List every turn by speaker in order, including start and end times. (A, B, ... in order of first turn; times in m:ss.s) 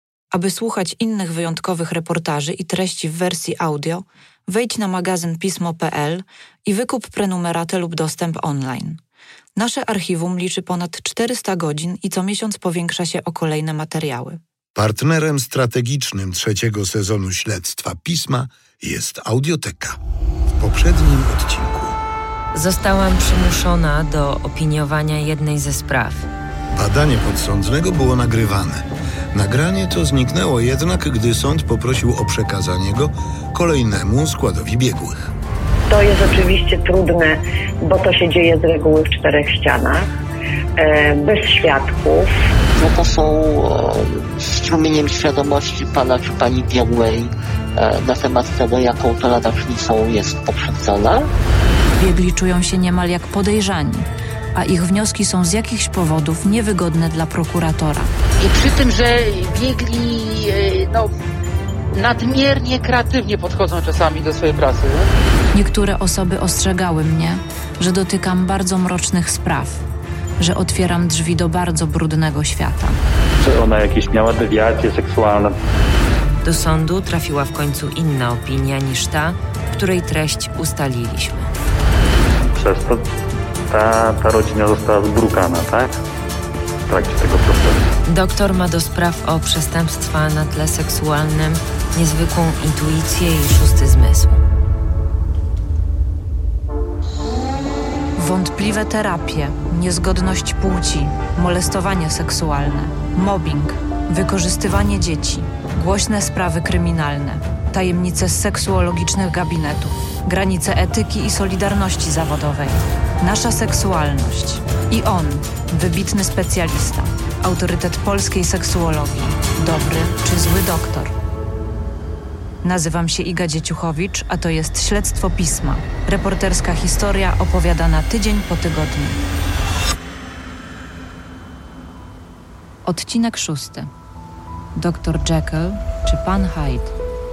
0:00.3-0:09.0 A
0:09.6-0:14.4 A
0:14.8-0:20.0 B
0:20.6-0:22.0 B
0:22.5-0:26.3 C
0:26.7-0:35.3 B
0:35.9-0:40.1 D
0:40.8-0:42.3 D
0:42.8-0:51.3 E
0:52.0-0:58.1 A
0:58.4-1:01.1 F
1:01.9-1:05.1 F
1:05.5-1:09.8 A
1:10.4-1:13.0 A
1:13.4-1:15.6 G
1:16.4-1:21.5 C
1:22.5-1:23.1 G
1:23.7-1:25.9 G
1:26.9-1:27.8 G
1:28.0-1:34.4 C
1:38.2-2:01.1 A
2:02.6-2:09.2 A
2:12.8-2:13.9 A
2:14.8-2:16.9 A